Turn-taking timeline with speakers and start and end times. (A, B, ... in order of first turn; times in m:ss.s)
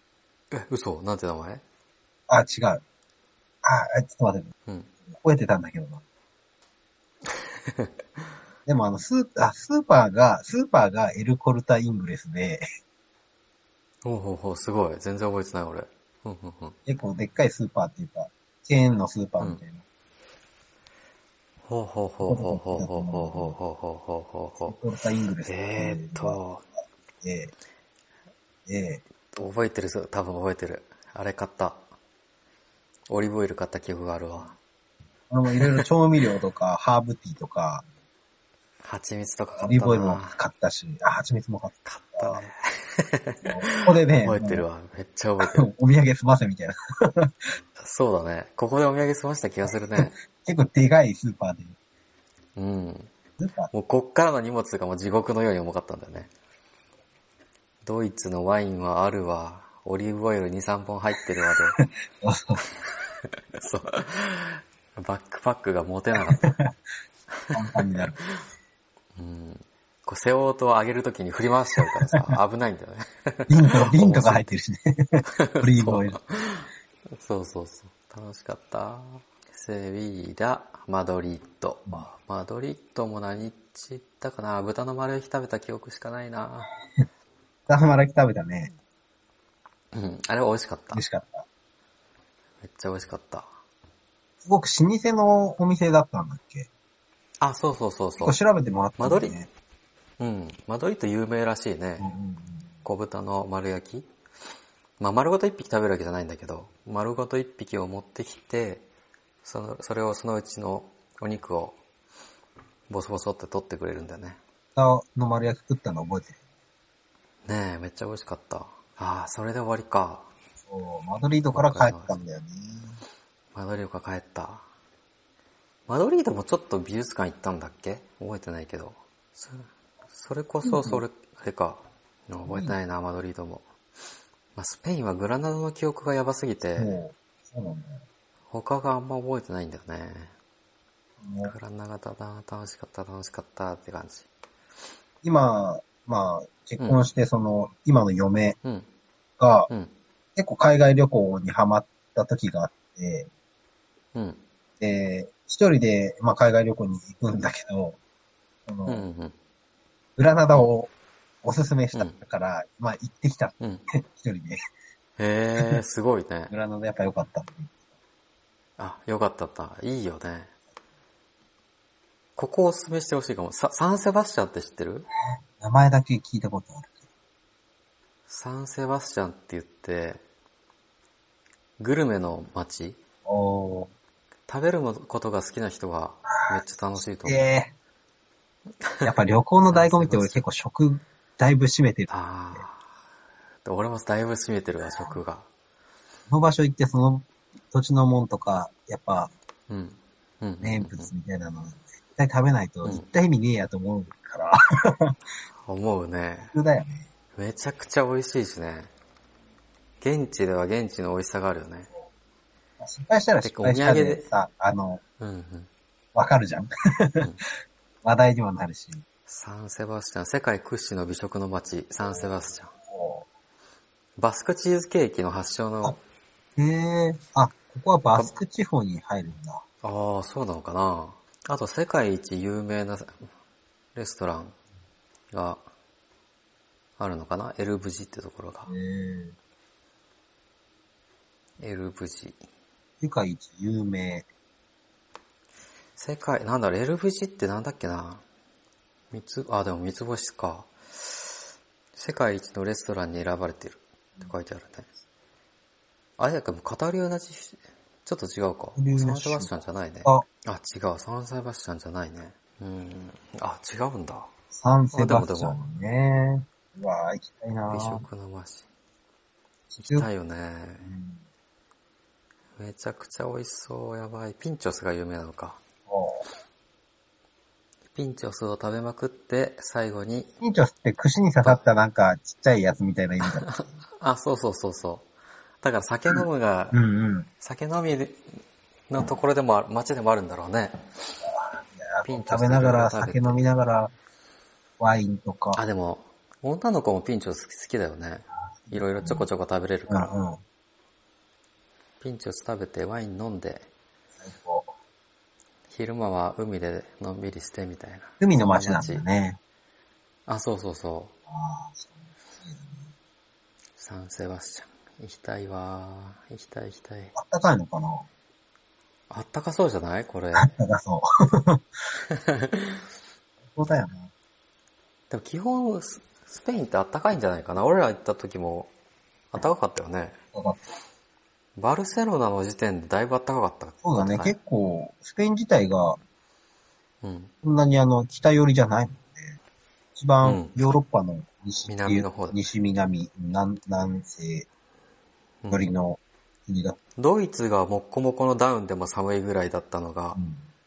0:00.5-0:01.6 A
0:02.3-0:02.8 B
0:03.6-0:04.5 B
0:05.1-0:06.0 B
0:07.6-0:07.9 A
0:08.7-0:12.6 B
0:14.0-0:16.8 A
0:16.9-0:19.8 B
0:21.7-0:24.8 A
0:22.2-0:23.6 B
0:24.7-0:26.4 B
0:25.4-0:26.6 A
0:27.2-0:27.5 B
0:28.7-0:29.0 B
0:29.4-0:31.8 A
0:33.1-0:34.6 A
0:35.3-0:37.8 B
0:35.5-0:35.9 A
0:38.8-0:40.4 A
0:39.6-0:42.4 B
0:41.9-0:45.7 A
0:43.4-0:44.6 B
0:45.4-0:47.4 B
0:47.8-0:50.2 A
0:49.7-0:51.8 B
0:52.6-0:53.1 A
0:53.4-0:53.7 B
0:53.7-0:56.3 A
0:57.8-1:01.8 A
1:01.8-1:02.6 B
1:02.8-1:06.6 A
1:06.2-1:06.7 B
1:07.4-1:08.4 A
1:07.5-1:08.2 B
1:09.2-1:14.5 A
1:13.5-1:16.2 B
1:15.3-1:26.7 A
1:27.7-1:28.7 B
1:29.9-1:31.0 A
1:30.9-1:31.5 B
1:32.6-1:33.5 A
1:34.4-1:36.7 B
1:37.4-1:38.4 A
1:38.2-1:39.5 B
1:39.0-1:39.4 A
1:40.2-1:42.1 A
1:42.0-1:42.7 B
1:42.8-1:44.1 A
1:45.0-1:48.9 A
1:49.4-1:51.8 A
1:52.9-1:54.4 A
1:54.8-1:56.4 B
1:57.5-2:00.3 A
2:00.7-2:03.0 B
2:01.5-2:02.2 A
2:03.6-2:04.7 A
2:05.9-2:13.6 A
2:10.6-2:11.0 B
2:12.5-2:12.8 B
2:14.6-2:17.0 A
2:16.8-2:18.0 B
2:18.5-2:20.3 A
2:21.2-2:21.5 B
2:21.4-2:24.3 A
2:25.2-2:28.6 B
2:26.8-2:27.0 A
2:29.4-2:29.7 B
2:30.4-2:33.3 B
2:34.1-2:34.4 A
2:34.8-2:38.0 B
2:38.7-2:39.0 B
2:38.9-2:39.4 A
2:40.2-2:40.9 B
2:41.4-2:44.6 B
2:45.2-2:46.5 A
2:45.6-2:45.8 B
2:46.5-2:47.8 B
2:48.8-2:50.5 A
2:52.4-2:55.1 A
2:55.6-2:57.0 B
2:58.3-3:00.2 A
3:01.8-3:03.0 A
3:03.3-3:03.9 B
3:04.5-3:07.4 A
3:07.2-3:07.7 B
3:08.8-3:09.1 A
3:09.0-3:12.6 B
3:09.7-3:10.4 A
3:12.1-3:12.9 A
3:13.6-3:15.5 A
3:16.3-3:19.3 B
3:19.7-3:21.1 A
3:20.6-3:25.2 B
3:25.7-3:26.5 A
3:26.5-3:27.0 B
3:27.4-3:28.9 A
3:30.0-3:31.9 A
3:32.8-3:35.0 B
3:33.4-3:34.3 A
3:35.2-3:35.7 A
3:36.2-3:37.3 B
3:38.0-3:39.0 B
3:39.3-3:42.7 A
3:42.9-3:43.3 B
3:44.2-3:46.0 A
3:46.6-3:49.6 B
3:49.8-3:53.3 A
3:54.0-3:54.6 A
3:55.3-3:55.6 A
3:57.0-3:58.7 A
3:58.7-3:59.4 B
4:01.6-4:02.4 A
4:03.0-4:04.3 B
4:06.0-4:08.2 A
4:09.1-4:11.3 A
4:12.0-4:14.9 A
4:16.2-4:24.3 A
4:18.8-4:20.2 B
4:24.5-4:28.0 B
4:25.0-4:25.6 A
4:27.7-4:28.7 A
4:29.7-4:30.1 B
4:29.8-4:30.9 A
4:30.8-4:31.2 B
4:32.6-4:35.6 A
4:35.9-4:36.2 B
4:37.9-4:40.3 A
4:40.4-4:43.8 B
4:43.4-4:45.1 A
4:45.6-4:46.8 A
4:46.7-4:47.3 B
4:47.4-4:48.2 A
4:48.9-4:50.9 A
4:51.2-4:53.9 B
4:52.0-4:53.5 A
4:54.8-4:55.6 B
4:55.5-5:00.2 A
4:58.7-4:59.3 B
4:59.9-5:00.4 B
5:02.0-5:03.7 A
5:04.2-5:04.7 B
5:05.7-5:09.0 A
5:08.2-5:09.4 B
5:10.3-5:11.1 A
5:11.3-5:12.8 B
5:13.8-5:17.2 A
5:17.2-5:18.1 B
5:19.1-5:20.5 A
5:20.4-5:21.6 B
5:22.1-5:22.8 A
5:23.5-5:24.1 B
5:25.1-5:28.7 A
5:29.3-5:30.2 A
5:30.3-5:30.6 B
5:31.6-5:34.4 A
5:33.8-5:36.0 B
5:37.0-5:37.3 A
5:37.4-5:39.4 B
5:40.0-5:44.5 B
5:40.2-5:40.7 A
5:41.7-5:42.4 A
5:45.5-5:46.8 B
5:47.0-5:50.2 A
5:50.2-5:50.4 B